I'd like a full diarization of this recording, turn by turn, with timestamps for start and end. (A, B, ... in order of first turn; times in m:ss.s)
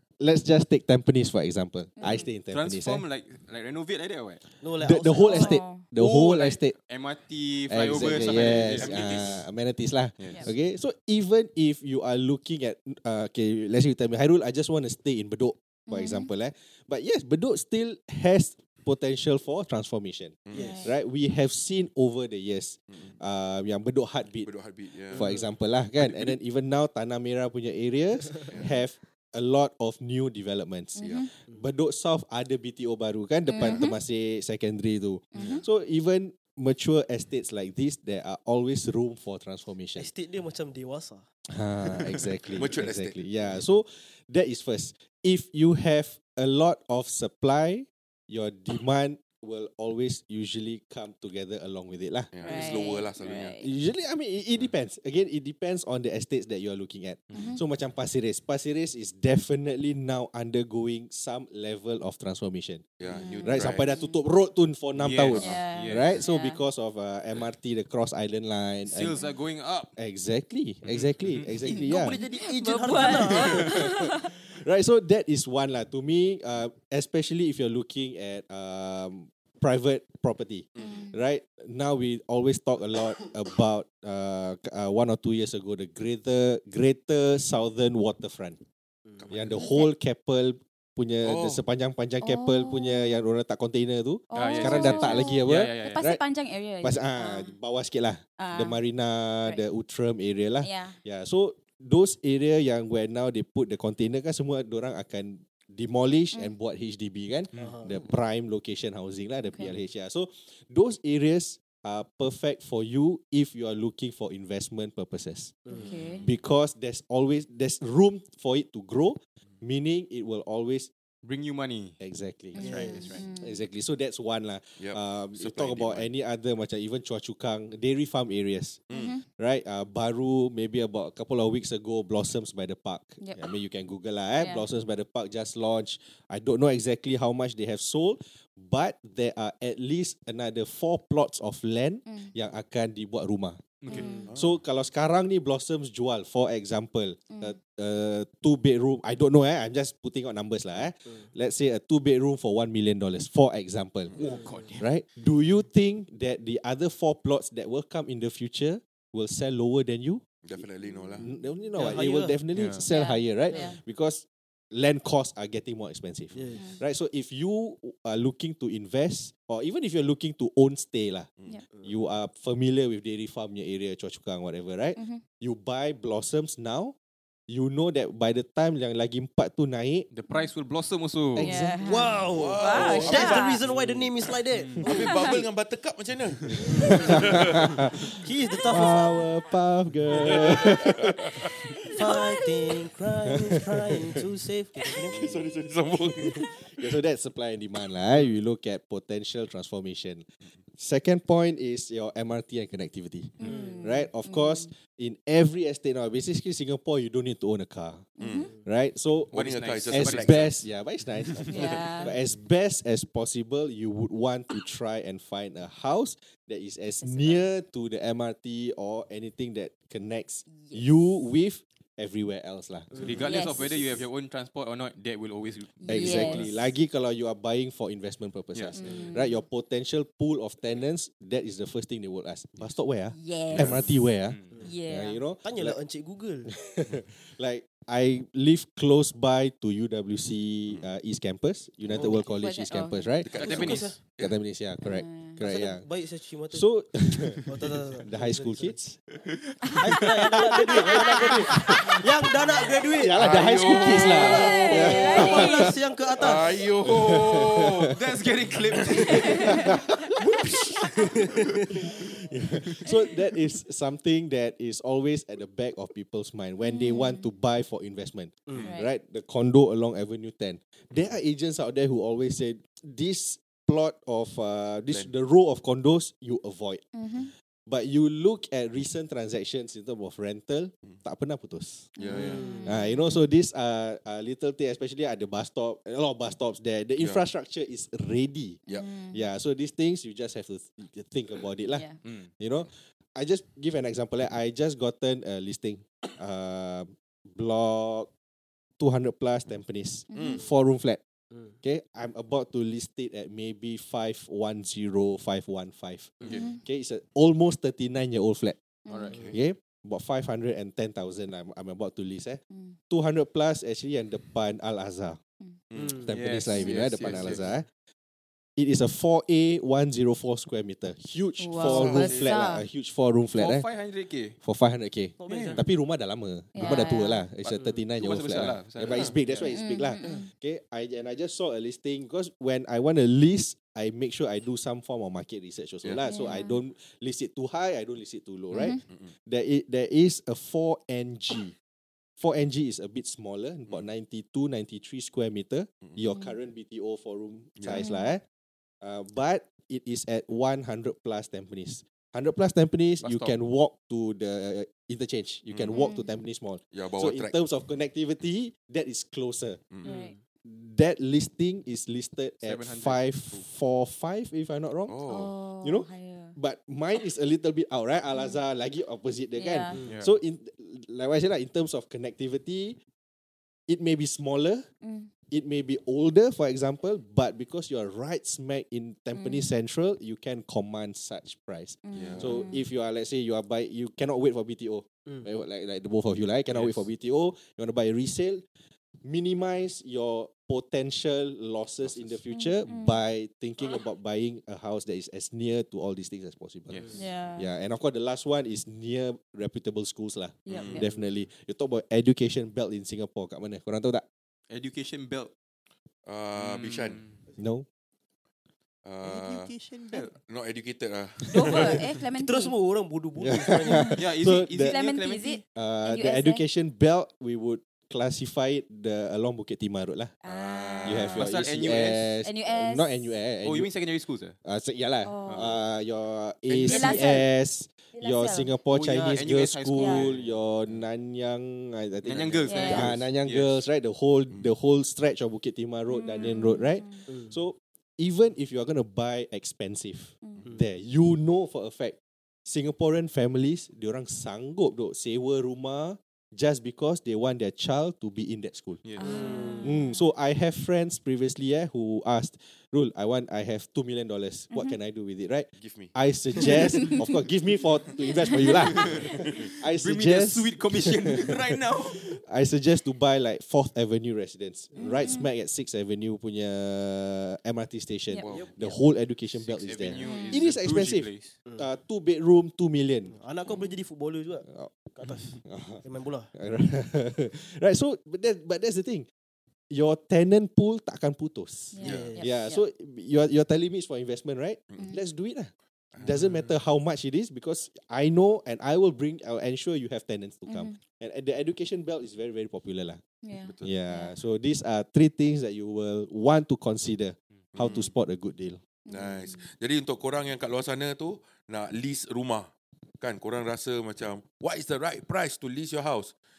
0:00.2-0:03.1 A
0:02.0-0:02.3 B
0:02.5-0:04.4 C
0:04.6-0:05.6 D
0:04.8-0:06.8 A
0:05.1-0:05.9 B
0:06.0-0:09.4 C
0:07.7-0:24.5 A
0:08.0-0:09.5 E
0:10.2-0:10.5 E
0:15.9-0:16.3 B
0:20.5-0:20.8 E
0:20.5-0:20.9 D
0:20.6-0:21.0 B
0:22.9-0:23.2 E
0:24.4-0:25.4 E
0:25.1-0:40.1 A
0:25.1-0:25.5 D
0:26.0-0:26.3 E
0:28.5-0:28.7 E
0:31.0-0:31.3 B
0:31.0-0:31.3 E
0:33.5-0:34.0 B
0:35.3-0:35.6 B
0:40.0-0:41.3 D
0:41.5-0:52.3 A
0:42.5-0:43.6 E
0:52.3-0:53.6 E
0:52.4-0:53.7 B
0:53.6-1:02.9 A
0:57.3-0:57.6 B
1:03.0-1:03.9 E
1:03.1-1:04.2 B
1:03.4-1:09.2 A
1:05.0-1:06.2 C
1:05.3-1:06.6 B
1:08.8-1:09.9 C
1:10.0-1:12.2 A
1:10.9-1:11.5 C
1:11.7-1:14.3 B
1:11.7-1:13.9 D
1:13.2-1:28.6 A
1:20.8-1:21.0 E
1:20.8-1:21.2 B
1:29.2-1:29.7 E
1:29.3-1:36.2 A
1:29.6-1:29.9 B
1:31.2-1:31.6 E
1:32.2-1:33.2 B
1:34.3-1:37.6 B
1:34.3-1:36.0 C
1:36.8-1:55.6 A
1:38.4-1:38.8 B
1:40.6-1:41.0 B
1:47.6-1:47.9 D
1:49.4-1:49.8 B
1:55.7-1:55.9 D
1:55.7-1:56.3 B
1:56.2-2:00.9 A
2:01.2-2:02.0 C
2:02.0-2:34.2 A
2:02.5-2:03.2 C
2:02.6-2:03.6 B
2:02.6-2:03.2 D
2:04.8-2:06.1 E
2:08.9-2:09.2 B
2:13.2-2:13.5 B
2:14.4-2:14.7 B
2:22.1-2:22.3 B
2:23.8-2:24.2 C
2:23.9-2:24.3 B
2:24.3-2:24.6 E
2:27.3-2:27.6 B
2:34.2-2:34.9 C
2:34.3-2:34.7 D
2:34.8-2:40.2 A
2:40.4-2:41.3 E
2:40.8-2:41.3 B
2:41.2-2:51.3 A
2:41.8-2:42.4 D
2:42.5-2:42.9 C
2:42.9-2:43.8 B
2:43.5-2:43.8 D
2:46.4-2:46.8 D
2:46.5-2:46.8 B
2:51.8-2:57.0 A
2:55.0-2:55.2 B
2:57.5-3:00.1 A
3:00.1-3:01.5 C
3:01.4-3:02.3 A
3:01.4-3:03.6 B
3:01.8-3:05.4 D
3:02.3-3:03.5 E
3:04.5-3:04.8 C
3:04.8-3:07.7 E
3:04.8-3:05.4 B
3:06.7-3:07.4 D
3:06.7-3:11.3 A
3:08.2-3:09.2 D
3:10.1-3:11.6 E
3:11.8-3:12.8 B
3:11.9-3:15.4 D
3:13.3-3:14.3 A
3:15.1-3:16.6 E
3:16.7-3:20.2 A
3:20.8-3:43.3 A
3:23.4-3:24.7 B
3:23.4-3:23.8 D
3:28.2-3:28.5 B
3:28.2-3:28.5 E
3:29.3-3:30.6 C
3:29.3-3:30.6 E
3:31.5-3:32.2 B
3:37.0-3:37.5 B
3:40.5-3:41.0 B
3:43.0-3:46.6 C
3:43.2-3:43.8 B
3:45.8-3:46.6 B
3:45.9-3:55.8 A
3:48.7-3:49.4 B
3:48.8-3:49.1 D
3:53.1-3:53.8 B
3:53.5-3:54.0 E
3:54.2-3:54.6 C
3:54.6-3:55.2 B
3:55.4-3:56.5 D
3:56.5-4:05.9 A
4:00.7-4:00.9 E
4:01.9-4:02.2 D
4:02.1-4:03.2 B
4:03.2-4:04.4 E
4:03.3-4:04.0 D
4:03.4-4:03.9 C
4:04.8-4:05.4 B
4:05.4-4:06.8 D
4:06.5-4:09.0 A
4:07.5-4:08.8 D
4:09.8-4:16.6 D
4:10.3-4:12.3 A
4:11.5-4:11.9 B
4:12.8-4:15.8 A
4:13.2-4:15.4 E
4:13.7-4:15.7 B
4:16.2-4:17.9 E
4:16.8-4:18.0 A
4:16.8-4:19.5 C
4:19.0-4:21.3 A
4:19.1-4:19.7 B
4:21.0-4:21.5 D
4:21.9-4:36.9 A
4:26.6-4:27.3 B
4:28.6-4:28.9 B
4:36.9-4:37.3 B
4:37.7-4:41.9 A
4:42.0-4:43.3 B
4:42.0-4:42.7 E
4:42.1-4:42.8 D
4:42.6-4:58.1 A
4:47.0-4:47.2 E
4:48.7-4:49.3 B
4:51.7-4:52.0 B
4:58.8-5:01.0 A
5:00.1-5:00.5 B
5:00.1-5:00.4 E
5:01.6-5:08.6 A
5:06.3-5:06.6 B
5:08.8-5:09.2 B
5:08.9-5:09.3 C
5:09.1-5:09.4 E
5:09.3-5:15.2 A
5:12.5-5:12.8 B
5:15.7-5:16.1 E
5:15.8-5:16.1 D
5:16.0-5:17.7 A
5:16.1-5:17.4 C
5:17.0-5:17.4 E
5:18.6-5:23.7 A
5:21.4-5:22.7 B
5:21.7-5:22.3 C
5:23.4-5:24.4 C
5:24.4-5:41.5 A
5:25.2-5:25.7 D
5:25.3-5:25.6 C
5:26.5-5:27.3 B
5:27.4-5:30.2 C
5:27.5-5:27.8 D
5:29.5-5:30.3 B
5:36.0-5:36.6 B
5:38.6-5:38.8 B
5:38.6-5:39.1 E
5:42.2-5:48.2 A
5:46.1-5:46.4 B
5:47.6-5:47.9 E
5:47.7-5:48.1 B
5:48.8-5:59.6 A
5:53.0-5:53.4 C
5:55.5-5:55.8 E
5:55.7-5:56.1 B
5:56.7-5:57.4 E
5:59.8-6:00.2 B
5:59.8-6:00.2 D
6:00.4-6:05.0 A
6:02.4-6:03.4 C
6:04.9-6:05.3 E
6:05.1-6:06.4 B
6:05.6-6:12.8 A
6:08.1-6:08.4 B
6:09.4-6:09.8 B
6:09.8-6:10.1 C
6:13.7-6:14.7 A
6:14.8-6:15.1 B
6:15.3-6:28.4 A
6:19.1-6:19.5 B
6:21.8-6:22.6 B
6:21.9-6:22.5 E
6:26.5-6:26.8 C
6:29.0-6:44.0 A
6:31.8-6:32.2 E
6:32.3-6:33.0 B
6:36.9-6:37.5 B
6:40.5-6:40.9 B
6:40.5-6:40.9 E
6:44.5-6:45.3 C
6:46.1-6:47.1 E
6:46.4-6:47.2 C
6:47.4-6:47.7 A
6:48.8-6:49.5 E
6:49.0-6:50.1 C
6:50.2-6:51.7 E
6:51.3-6:52.6 B
6:52.2-6:54.0 D
6:53.2-6:54.8 A
6:53.7-6:56.4 B
6:54.0-6:55.4 C
6:55.5-7:00.1 A
7:00.2-7:01.2 B
7:00.2-7:01.3 E
7:00.8-7:03.8 A
7:01.2-7:02.1 C
7:02.2-7:03.2 B
7:03.4-7:04.4 C
7:04.4-7:28.8 A
7:05.0-7:05.5 B
7:05.3-7:05.6 C
7:06.5-7:07.2 E
7:06.6-7:07.3 B
7:07.9-7:08.6 B
7:08.7-7:10.8 C
7:09.8-7:10.1 B
7:12.0-7:12.4 E
7:12.0-7:13.6 C
7:12.4-7:12.9 B
7:15.9-7:17.0 B
7:28.8-7:29.4 C
7:29.0-7:30.0 B
7:29.1-7:29.7 D
7:29.6-7:53.1 A
7:34.5-7:34.8 B
7:35.6-7:36.6 E
7:38.8-7:39.4 E
7:39.7-7:42.0 C
7:44.8-7:45.3 B
7:48.2-7:48.6 C
7:48.3-7:48.8 D
7:49.3-7:51.4 C
7:50.0-7:50.4 B
7:53.1-7:56.3 D
7:53.5-7:53.8 B
7:54.5-7:54.9 A
7:55.4-7:59.1 A
7:59.7-8:13.0 A
8:01.7-8:02.6 B
8:01.8-8:02.2 D
8:01.8-8:02.1 E
8:04.8-8:05.0 B
8:05.9-8:06.4 E
8:10.5-8:10.8 B
8:13.2-8:14.2 B
8:13.4-8:13.8 E
8:13.6-8:18.6 A
8:17.6-8:17.9 E
8:18.9-8:19.4 B
8:18.9-8:26.1 E